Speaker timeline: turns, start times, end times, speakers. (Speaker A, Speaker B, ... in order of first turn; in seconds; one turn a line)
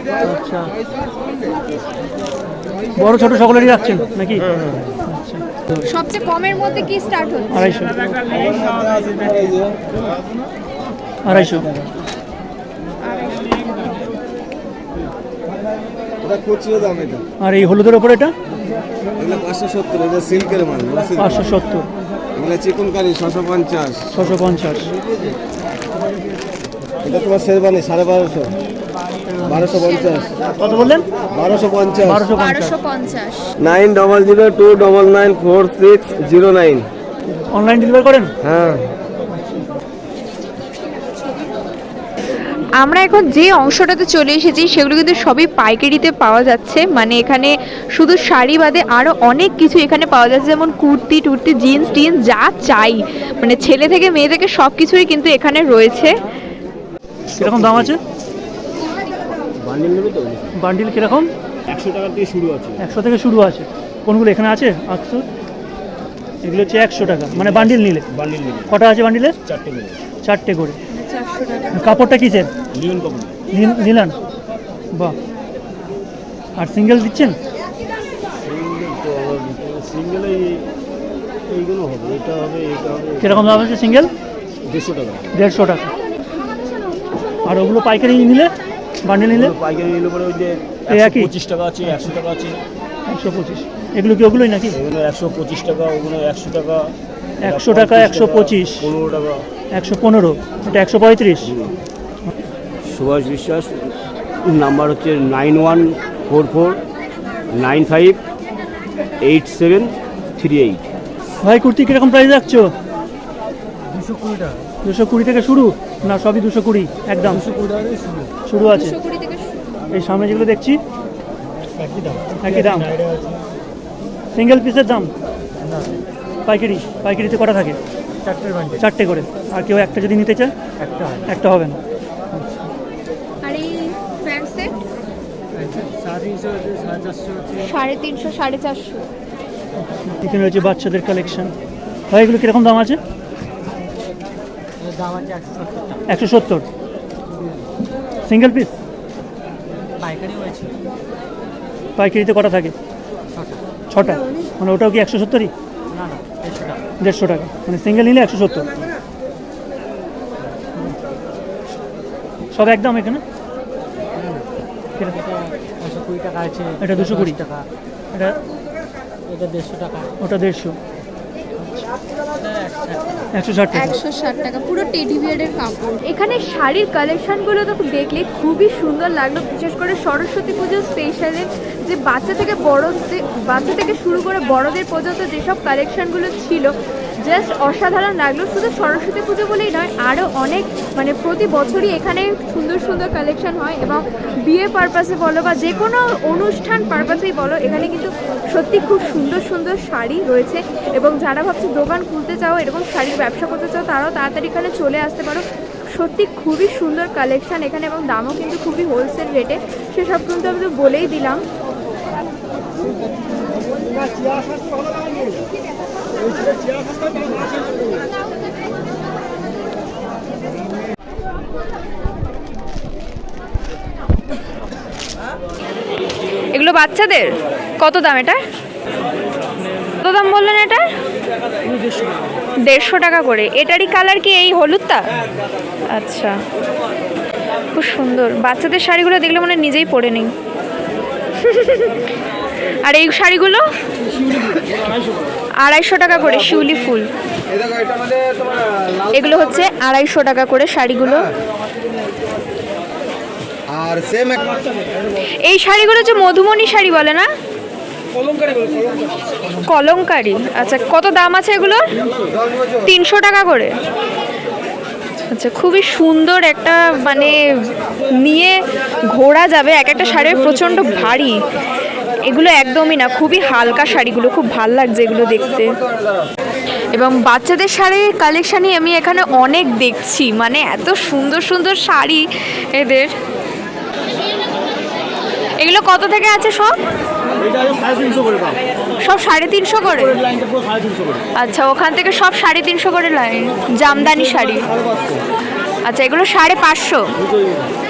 Speaker A: 0.2-0.7
Speaker A: 3.0-4.5
Speaker B: 4.6-4.8
Speaker A: 5.1-5.4
Speaker C: 5.8-7.8
Speaker A: 7.5-8.0
Speaker B: 8.2-9.8
Speaker A: 11.2-11.7
Speaker C: 13.0-14.0
Speaker B: 16.2-17.2
Speaker A: 17.4-18.3
Speaker B: 19.2-21.4
Speaker A: 21.2-21.9
Speaker B: 22.4-24.2
Speaker A: 24.1-24.9
Speaker B: 25.0-25.4
Speaker B: 27.0-28.5
Speaker A: 29.3-29.6
Speaker B: 29.4-30.4
Speaker C: 29.6-30.4
Speaker A: 30.4-31.1
Speaker B: 31.2-32.2
Speaker A: 32.0-32.8
Speaker C: 32.3-33.5
Speaker B: 33.6-36.9
Speaker A: 37.5-38.3
Speaker B: 38.4-38.9
Speaker C: 42.8-56.1
Speaker A: 57.3-58.0
Speaker D: 57.3-58.0
Speaker D: 59.6-60.5
Speaker A: 60.5-61.3
Speaker D: 61.7-62.9
Speaker A: 62.8-65.2
Speaker A: 66.4-68.0
Speaker D: 67.3-68.7
Speaker A: 68.7-69.3
Speaker D: 69.4-70.1
Speaker A: 70.2-70.8
Speaker C: 70.9-72.0
Speaker A: 71.8-72.5
Speaker D: 72.7-73.3
Speaker A: 73.5-74.2
Speaker A: 76.6-77.3
Speaker D: 78.4-80.7
Speaker D: 81.5-83.7
Speaker A: 83.2-84.1
Speaker D: 84.6-85.4
Speaker A: 85.3-85.9
Speaker A: 87.4-88.5
Speaker A: 89.0-89.5
Speaker D: 89.3-92.6
Speaker A: 90.9-91.3
Speaker A: 93.1-94.8
Speaker D: 94.7-99.4
Speaker A: 97.4-98.9
Speaker A: 99.7-101.5
Speaker D: 101.4-101.8
Speaker D: 102.8-103.9
Speaker D: 104.4-106.8
Speaker D: 107.5-108.2
Speaker D: 109.2-110.8
Speaker A: 111.4-112.7
Speaker E: 114.0-114.5
Speaker A: 114.8-117.5
Speaker B: 117.6-118.3
Speaker A: 118.5-118.9
Speaker C: 118.7-119.9
Speaker A: 119.9-120.8
Speaker E: 121.8-122.5
Speaker A: 122.4-123.0
Speaker A: 124.3-125.1
Speaker A: 126.5-127.8
Speaker E: 128.2-128.8
Speaker A: 128.8-130.5
Speaker E: 130.8-131.3
Speaker A: 131.2-131.8
Speaker C: 133.4-134.8
Speaker E: 135.5-137.6
Speaker C: 137.5-139.1
Speaker A: 139.8-141.5
Speaker A: 142.1-143.0
Speaker E: 144.8-146.0
Speaker A: 146.1-146.7
Speaker E: 147.3-147.7
Speaker A: 148.3-148.7
Speaker E: 150.0-150.8
Speaker A: 152.0-152.7
Speaker E: 153.3-153.6
Speaker A: 153.9-155.5
Speaker E: 155.9-156.8
Speaker A: 157.0-158.7
Speaker A: 162.5-163.2
Speaker E: 164.2-164.4
Speaker E: 165.1-167.7
Speaker A: 166.8-167.4
Speaker E: 169.3-170.1
Speaker A: 170.2-170.8
Speaker E: 172.4-173.3
Speaker A: 173.3-174.0
Speaker C: 173.7-186.7
Speaker C: 187.2-211.4
Speaker C: 226.5-228.4
Speaker C: 229.9-230.8
Speaker C: 232.7-235.1
Speaker C: 235.9-236.4
Speaker C: 237.7-240.3
Speaker C: 241.4-241.9
Speaker C: 242.8-243.6
Speaker C: 244.3-244.8
Speaker C: 245.6-247.1
Speaker B: 247.5-248.9
Speaker C: 249.1-251.3
Speaker B: 253.7-254.6
Speaker C: 255.4-257.3
Speaker C: 259.7-261.9
Speaker C: 262.9-263.7
Speaker C: 265.3-271.4
Speaker C: 272.2-275.8
Speaker C: 276.9-283.1
Speaker C: 285.6-286.7
Speaker D: 287.4-288.6
Speaker C: 289.0-290.2
Speaker D: 290.2-291.2
Speaker C: 291.4-294.7
Speaker B: 294.6-295.2
Speaker C: 295.9-297.1